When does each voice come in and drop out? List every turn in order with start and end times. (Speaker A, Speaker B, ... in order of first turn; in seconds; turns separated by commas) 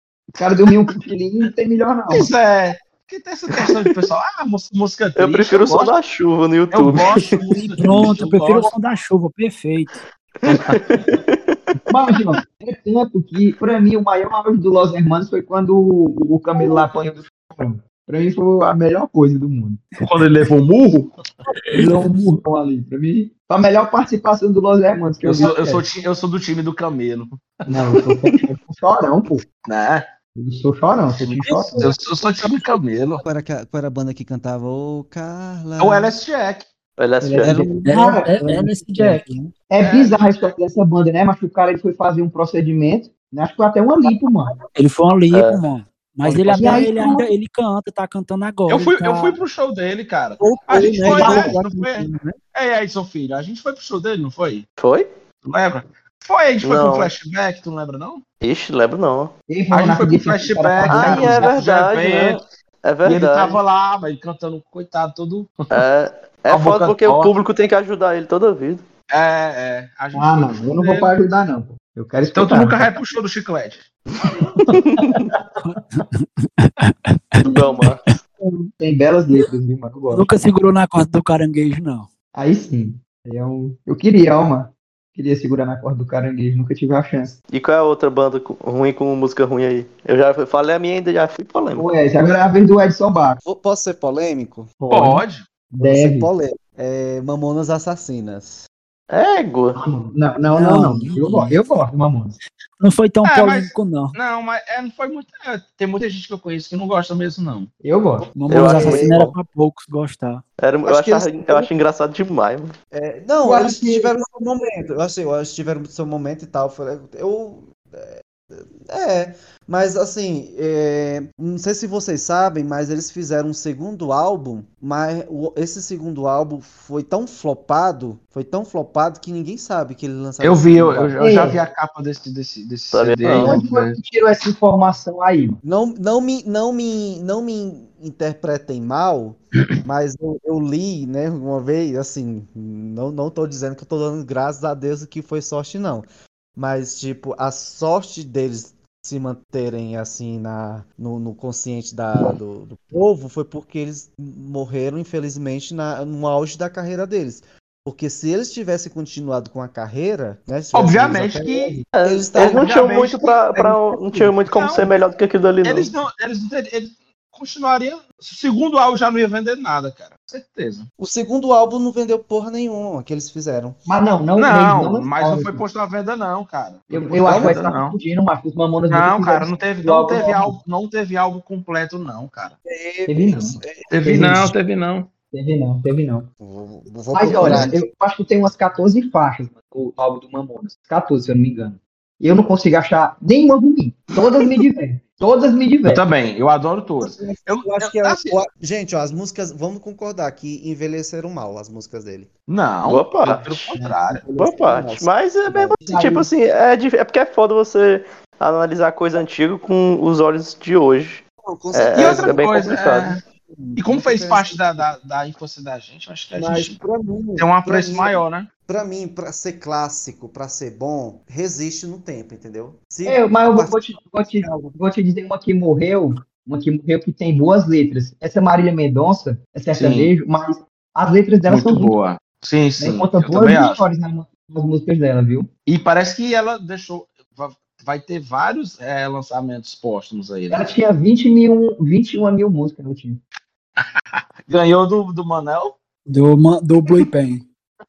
Speaker A: 0.4-2.3, Speaker B: 2.1-5.9, Speaker C: 3.5-3.8, Speaker C: 5.2-7.4, Speaker B: 6.7-8.7, Speaker D: 7.6-10.0, Speaker C: 10.4-11.7, Speaker B: 10.5-10.8, Speaker A: 11.9-19.9, Speaker B: 20.0-21.1, Speaker A: 21.7-25.8, Speaker D: 21.8-22.3, Speaker B: 25.2-27.9, Speaker A: 27.7-29.4, Speaker B: 29.6-30.0, Speaker A: 30.4-31.9, Speaker B: 31.2-33.2, Speaker E: 33.2-36.1, Speaker B: 35.8-36.7, Speaker C: 37.0-37.5, Speaker A: 37.2-44.5, Speaker E: 37.4-39.4, Speaker D: 37.8-39.4, Speaker B: 39.8-40.5, Speaker D: 44.8-49.4, Speaker C: 45.3-45.6, Speaker B: 46.2-46.8, Speaker A: 46.5-47.3, Speaker B: 48.7-54.6, Speaker E: 50.4-52.4, Speaker A: 51.1-51.5, Speaker C: 54.8-55.1, Speaker B: 55.4-58.2, Speaker C: 56.6-57.1, Speaker C: 58.4-59.3, Speaker A: 59.5-61.5, Speaker B: 59.7-62.4, Speaker C: 60.9-63.6, Speaker B: 63.0-65.8, Speaker C: 65.7-68.8, Speaker B: 66.5-67.3, Speaker B: 69.1-71.1, Speaker A: 70.1-72.9, Speaker B: 72.3-73.9, Speaker A: 74.3-75.4, Speaker C: 74.8-75.2, Speaker D: 75.6-77.4, Speaker C: 77.4-78.0, Speaker D: 78.4-78.7, Speaker A: 78.8-80.3, Speaker D: 80.1-82.1, Speaker A: 82.3-87.4, Speaker C: 87.5-91.9, Speaker A: 91.7-93.4, Speaker E: 93.4-94.8, Speaker A: 94.8-96.3, Speaker B: 94.9-95.4, Speaker E: 95.8-98.7, Speaker C: 99.1-99.8, Speaker A: 99.7-102.4, Speaker D: 100.5-101.5, Speaker D: 102.8-104.1, Speaker B: 103.2-107.7, Speaker A: 107.8-108.3, Speaker D: 108.4-110.4, Speaker C: 108.5-109.2, Speaker E: 108.8-109.2, Speaker C: 110.6-112.7, Speaker E: 110.8-111.7, Speaker E: 112.9-131.2, Speaker A: 113.4-114.1, Speaker B: 130.4-134.0, Speaker A: 131.2-131.6, Speaker C: 132.9-133.6, Speaker A: 133.3-135.6, Speaker E: 135.6-162.8, Speaker B: 160.7-161.8, Speaker C: 161.9-165.9, Speaker B: 162.4-163.8, Speaker B: 164.4-164.9, Speaker B: 165.6-170.9, Speaker E: 171.0-173.8, Speaker A: 173.8-175.6, Speaker B: 174.3-178.0, Speaker A: 176.9-180.6, Speaker E: 177.2-177.6, Speaker B: 178.9-182.6, Speaker E: 182.6-183.9, Speaker A: 183.1-184.5, Speaker B: 183.9-185.1, Speaker A: 185.3-186.3, Speaker E: 186.4-187.8, Speaker A: 187.1-196.0, Speaker B: 187.3-187.7, Speaker B: 195.9-198.4, Speaker E: 197.0-202.3, Speaker B: 202.5-204.3, Speaker C: 202.8-203.7, Speaker E: 204.1-205.7, Speaker C: 204.3-213.1, Speaker A: 205.5-206.3, Speaker E: 211.4-214.9, Speaker B: 211.9-213.2, Speaker B: 213.8-216.8, Speaker E: 216.3-223.8, Speaker B: 217.4-218.5, Speaker A: 223.1-231.9, Speaker E: 224.4-224.7, Speaker B: 229.7-230.1, Speaker B: 231.5-233.8, Speaker A: 232.8-235.5, Speaker B: 235.7-240.7, Speaker A: 240.5-243.2, Speaker B: 243.8-245.8, Speaker D: 246.1-247.4